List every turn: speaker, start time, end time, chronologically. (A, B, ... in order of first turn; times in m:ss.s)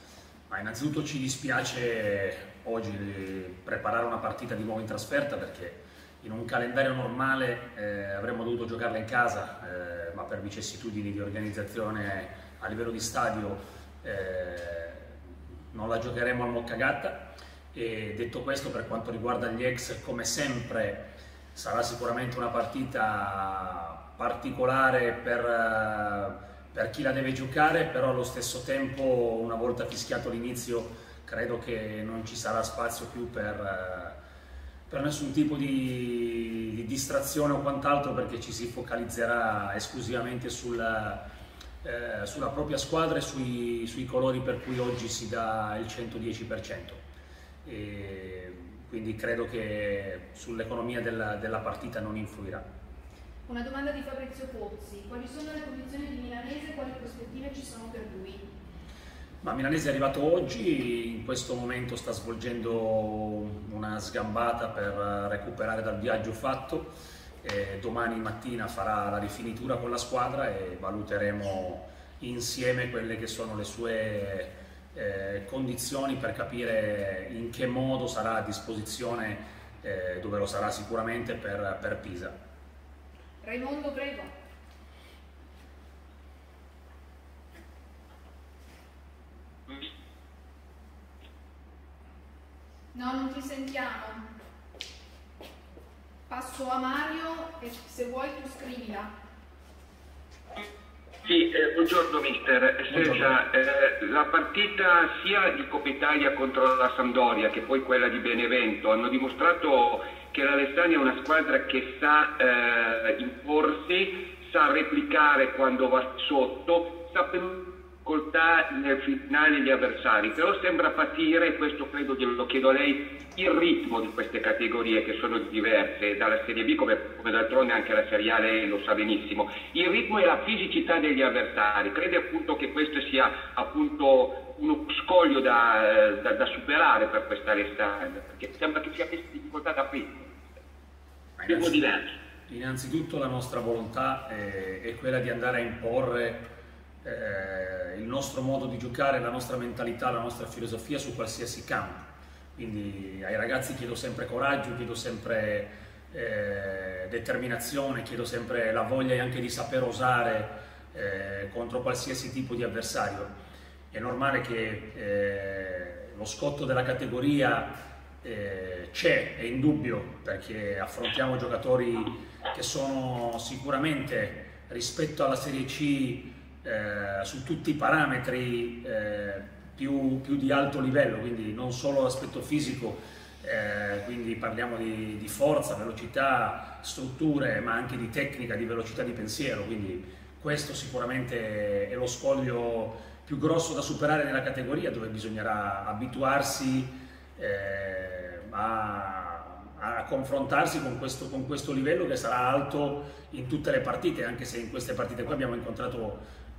0:00.5-0:15.2 A
0:15.7-0:34.2 A
0:34.9-0:41.3 A
0:41.8-0:47.0 A
0:47.6-0:52.6 A
0:53.4-0:58.5 B
0:59.4-1:22.4 A
1:23.4-1:24.3 B
1:32.9-1:34.3 B
1:36.3-1:39.1 B
1:41.2-2:20.4 C
1:42.9-1:43.3 A
2:21.4-2:21.8 A
2:21.5-2:22.0 C
2:22.5-2:26.4 A
2:27.0-2:43.3 A
2:43.9-3:26.2 A